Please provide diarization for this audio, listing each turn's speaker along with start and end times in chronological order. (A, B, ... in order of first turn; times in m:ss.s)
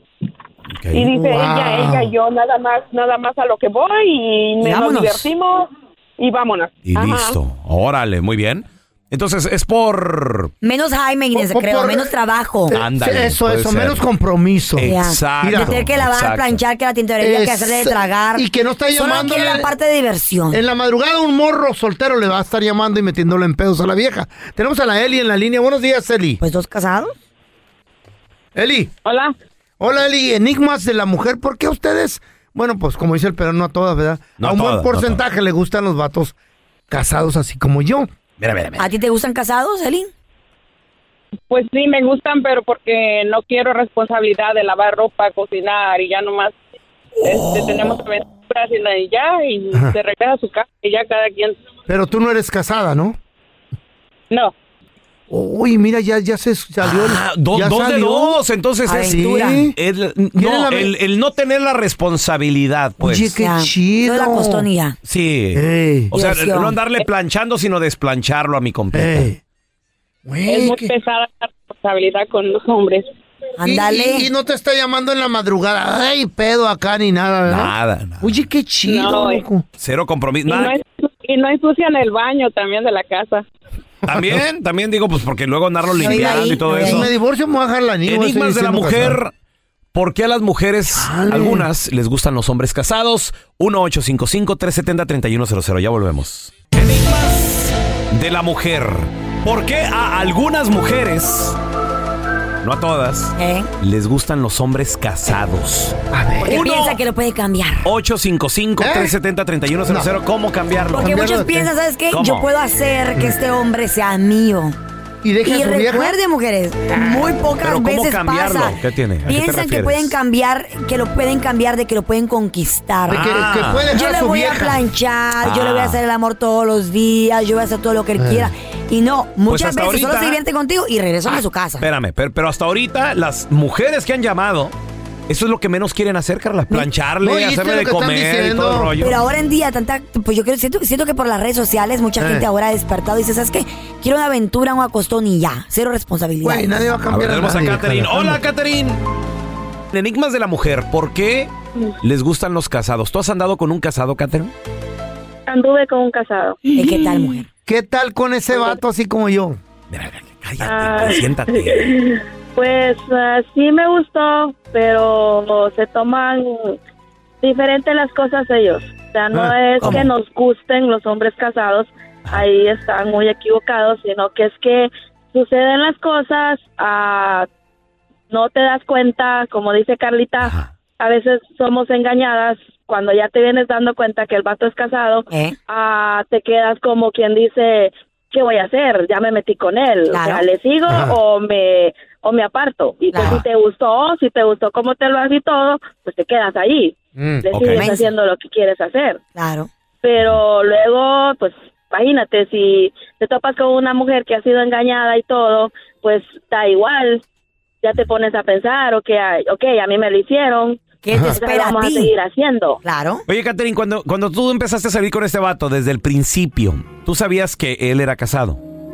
0:00.7-0:01.1 A
0:00.9-0:07.4 B
0:01.1-0:02.1 C
0:04.6-0:05.3 D
0:06.9-0:10.5 A
0:10.6-0:12.8 D
0:11.4-0:12.1 C
0:12.7-0:15.8 C
0:12.7-0:14.1 A
0:14.8-0:16.6 A
0:14.9-0:20.6 D
0:17.2-0:19.7 C
0:20.5-0:26.4 C
0:26.4-0:27.1 D
0:28.6-0:28.9 C
0:29.0-0:29.3 B
0:29.8-0:36.3 C
0:34.4-0:35.2 A
0:36.9-0:38.1 C
0:38.4-0:38.9 A
0:38.8-0:40.1 D
0:41.5-0:46.5 B
0:47.2-0:48.0 A
0:47.2-0:51.6 B
0:51.9-0:53.2 C
0:55.3-0:58.4 C
0:56.8-1:03.4 A
0:58.9-0:59.7 D
0:59.0-0:59.8 C
1:00.4-1:00.9 C
1:03.0-1:04.7 C
1:03.4-1:05.0 D
1:05.0-1:09.3 A
1:05.6-1:06.1 C
1:06.1-1:06.8 D
1:08.9-1:09.4 C
1:10.2-1:10.9 C
1:10.5-1:13.0 B
1:13.6-1:14.3 D
1:13.6-1:19.6 C
1:17.5-1:18.4 A
1:18.8-1:19.5 B
1:19.8-1:20.8 A
1:20.5-1:23.5 B
1:24.0-1:24.4 C
1:24.1-1:27.1 A
1:26.0-1:27.1 D
1:26.0-1:29.2 C
1:28.1-1:29.3 A
1:29.9-1:41.6 A
1:31.0-1:31.7 C
1:42.6-1:47.0 A
1:43.4-1:43.7 D
1:46.1-1:46.6 C
1:46.4-1:47.9 D
1:47.8-1:51.2 A
1:48.8-1:49.2 C
1:49.9-1:50.1 C
1:50.9-1:51.7 C
1:51.0-1:54.8 D
1:52.1-1:52.5 A
1:55.2-1:56.2 C
1:55.5-2:03.2 D
1:57.6-2:00.1 A
2:03.1-2:04.8 C
2:03.1-2:03.9 A
2:03.9-2:11.9 D
2:05.4-2:06.0 A
2:08.2-2:08.5 C
2:09.5-2:10.4 A
2:11.8-2:14.7 A
2:15.3-2:19.3 A
2:17.2-2:18.9 C
2:19.0-2:26.9 D
2:22.2-2:22.5 C
2:26.4-2:28.4 C
2:27.1-2:29.0 A
2:29.9-2:34.5 A
2:35.5-2:36.6 E
2:36.8-2:37.5 D
2:37.7-2:39.6 C
2:39.9-2:41.9 A
2:40.6-2:46.8 E
2:47.4-2:57.5 E
2:49.3-2:50.1 C
2:49.8-2:50.1 D
2:58.3-3:19.2 E
3:00.4-3:00.7 A
3:05.3-3:05.6 D
3:10.1-3:10.4 D
3:10.9-3:11.2 C
3:13.1-3:13.4 D
3:13.2-3:13.4 A
3:17.2-3:17.5 C
3:17.5-3:17.9 A
3:17.8-3:18.1 D
3:19.4-3:19.7 D
3:20.0-3:27.2 E
3:27.8-3:32.8 E
3:31.0-3:32.1 D
3:31.1-3:31.4 C
3:32.8-3:33.2 D
3:33.3-3:38.6 A